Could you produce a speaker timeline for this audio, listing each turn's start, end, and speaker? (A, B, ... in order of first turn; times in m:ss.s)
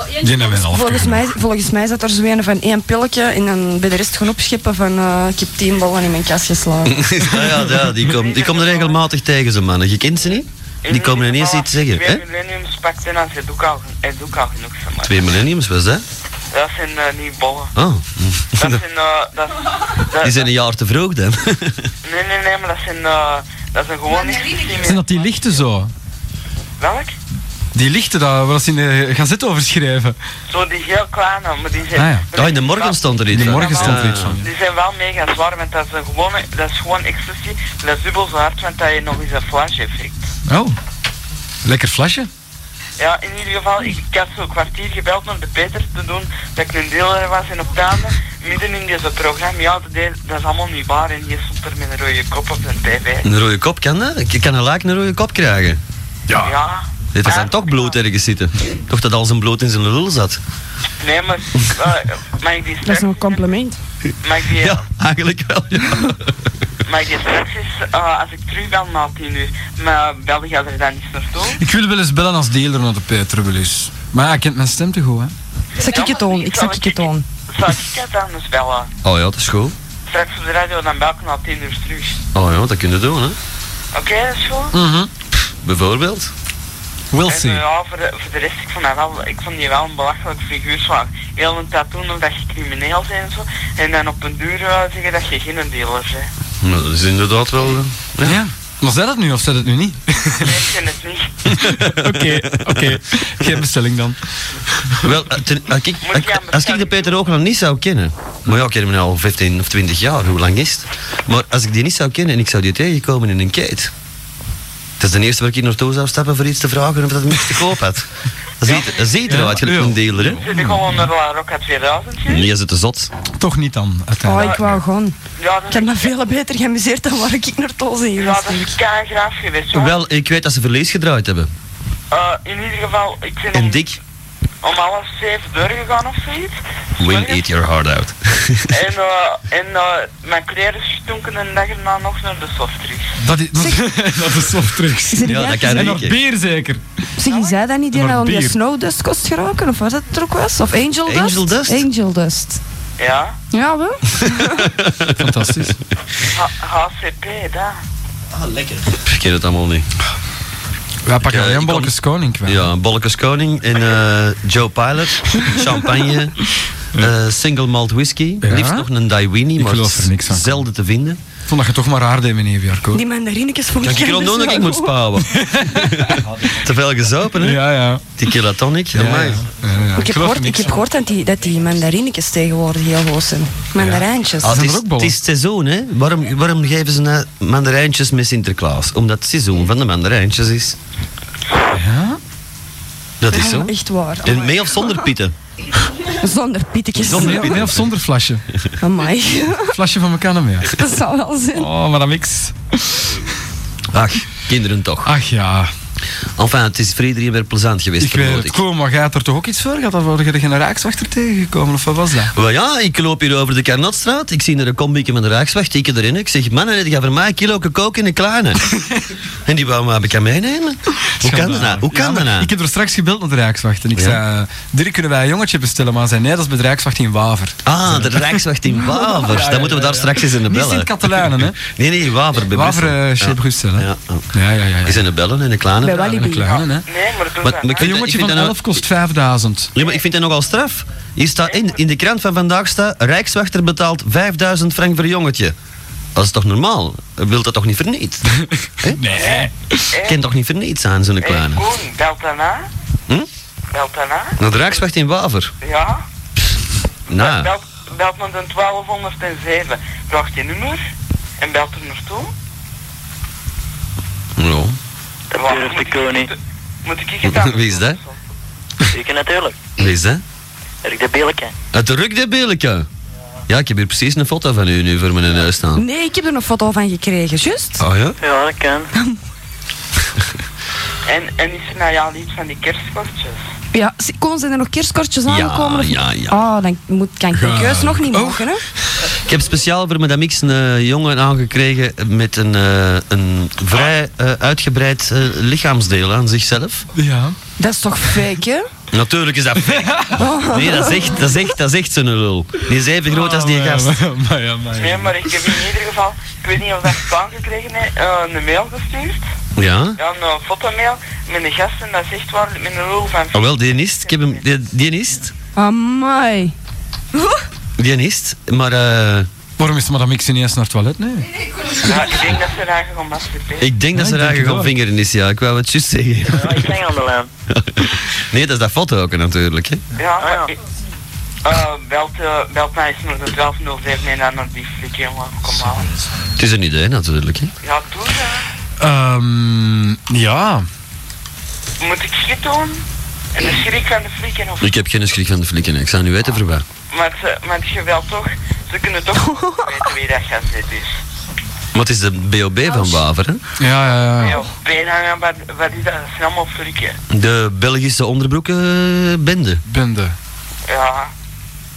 0:00.2-0:01.3 A
0:00.4-0:07.0 B
0:06.9-0:12.2 C
0:08.0-0:09.0 D
0:10.8-0:15.2 D
0:15.0-0:16.0 C
0:16.5-0:17.7 D
0:17.8-0:18.8 C
0:18.6-0:20.5 D
0:20.2-0:21.9 C
0:22.0-0:25.0 D
0:24.4-0:25.2 B
0:24.8-0:25.9 A
0:26.8-0:27.2 D
0:27.8-0:30.2 A
0:30.5-0:40.3 D
0:32.0-0:32.3 A
0:32.3-0:34.4 C
0:33.3-0:34.5 A
0:40.5-0:40.8 A
0:41.6-0:42.3 A
0:43.0-0:53.3 D
0:53.2-0:55.8 C
0:56.4-0:58.0 D
0:57.1-1:00.4 C
1:01.0-1:03.5 D
1:02.8-1:03.8 B
1:04.2-1:04.8 D
1:04.6-1:06.2 C
1:06.8-1:11.6 D
1:11.6-1:15.3 A
1:15.8-1:17.2 B
1:15.9-1:18.9 D
1:19.0-1:19.8 C
1:20.1-1:22.2 D
1:22.3-1:23.4 C
1:23.9-1:24.8 D
1:24.7-1:25.1 A
1:25.6-1:26.3 C
1:27.1-1:27.6 A
1:27.3-1:36.3 D
1:36.6-1:38.4 C
1:38.2-1:40.6 A
1:40.4-1:41.6 D
1:41.6-1:44.2 A
1:41.7-1:42.9 C
1:45.0-1:53.9 C
1:46.0-1:47.2 D
1:55.0-1:58.1 C
1:58.6-2:00.4 C
1:58.6-1:59.6 D
1:59.3-2:00.9 A
2:00.2-2:02.5 D
2:02.3-2:03.1 C
2:03.4-2:04.8 A
2:04.2-2:05.2 B
2:05.4-2:06.1 D
2:05.7-2:08.8 B
2:08.2-2:10.0 D
2:09.7-2:11.5 C
2:12.1-2:13.8 D
2:13.5-2:14.0 C
2:14.6-2:17.4 D
2:17.0-2:18.8 C
2:18.7-2:23.1 D
2:23.2-2:26.8 A
2:23.6-2:23.8 B
2:25.1-2:26.0 B
2:25.2-2:26.2 C
2:27.2-2:32.6 B
2:27.3-2:27.6 D
2:27.9-2:28.6 A
2:31.1-2:31.9 C
2:33.0-2:33.4 D
2:33.5-2:34.6 B
2:34.4-2:35.3 C
2:35.2-2:35.8 A
2:36.3-2:37.8 D
2:38.9-2:39.9 C
2:41.1-2:42.7 A
2:41.2-2:41.9 C
2:42.5-2:46.4 C
2:47.0-2:51.2 C
2:48.4-2:48.9 A
2:49.6-2:50.6 A
2:51.5-2:53.0 A
2:52.9-2:55.0 B
2:53.8-2:57.6 C
2:55.3-2:56.5 A
2:57.4-2:58.1 A
2:58.2-2:59.4 C
2:58.9-3:00.8 A
3:00.0-3:04.6 B
3:03.8-3:05.2 A
3:04.4-3:10.8 C
3:11.7-3:12.2 A
3:13.2-3:15.4 C
3:13.3-3:15.1 B
3:16.1-3:17.5 B
3:17.0-3:17.9 C
3:17.1-3:18.4 A
3:18.8-3:19.8 B
3:19.7-3:20.7 A
3:20.7-3:21.7 B
3:21.5-3:23.1 A
3:23.9-3:25.1 C
3:25.0-3:25.7 A
3:26.4-3:28.6 C
3:28.0-3:32.3 A
3:32.3-3:38.6 C
3:39.4-3:42.5 C
3:41.2-3:48.3 A
3:47.6-3:54.3 C
3:49.2-3:51.6 A
3:52.5-3:55.0 A
3:54.8-3:56.2 C
3:55.8-3:56.6 B
3:56.0-3:56.9 A
3:56.8-3:57.9 D
3:57.4-3:58.8 C
3:57.8-3:59.7 A
3:59.8-4:05.6 C
4:01.5-4:01.8 D
4:06.2-4:08.3 C
4:08.3-4:09.9 A
4:08.8-4:09.1 C
4:09.1-4:10.2 D
4:10.0-4:11.7 C
4:11.2-4:12.7 D
4:13.7-4:14.4 D
4:14.4-4:15.5 C
4:15.6-4:16.0 D
4:17.1-4:17.5 C
4:17.1-4:20.8 D
4:21.4-4:22.3 D
4:24.4-4:24.8 C
4:25.3-4:26.3 E
4:25.4-4:28.2 D
4:27.2-4:28.0 C
4:28.9-4:29.6 E
4:29.8-4:30.2 C
4:30.8-4:31.5 E
4:31.7-4:32.9 C
4:33.5-4:35.8 C
4:35.8-4:37.8 B
4:37.8-4:38.2 C
4:38.2-4:38.9 E
4:41.1-4:43.4 D
4:43.7-4:48.6 B
4:45.3-4:46.4 C
4:47.3-4:48.9 A
4:49.2-4:56.9 C
4:57.0-4:57.4 A
4:57.6-4:58.7 B
4:58.9-5:04.0 C
4:59.7-5:00.2 A
5:00.2-5:01.1 B
5:03.1-5:05.3 A
5:04.8-5:09.2 D
5:09.6-5:10.0 C
5:10.0-5:14.4 D
5:13.3-5:15.3 C
5:15.6-5:16.5 B
5:17.8-5:19.3 C
5:19.6-5:21.3 A
5:21.8-5:23.7 D
5:23.6-5:26.7 C
5:23.9-5:24.7 A
5:26.3-5:27.3 E
5:27.5-5:29.8 C
5:30.0-5:30.6 D
5:30.2-5:30.5 E
5:31.4-5:35.9 D
5:36.4-5:37.5 C
5:37.6-5:38.5 D
5:38.8-5:40.7 A
5:41.8-5:44.7 D
5:44.6-5:46.6 C
5:46.9-5:50.9 D
5:49.3-5:49.6 B
5:51.7-5:53.4 C
5:53.6-5:54.4 A
5:54.2-5:57.0 D
5:57.1-5:59.6 C
5:59.7-6:00.2 A
6:00.7-6:01.1 D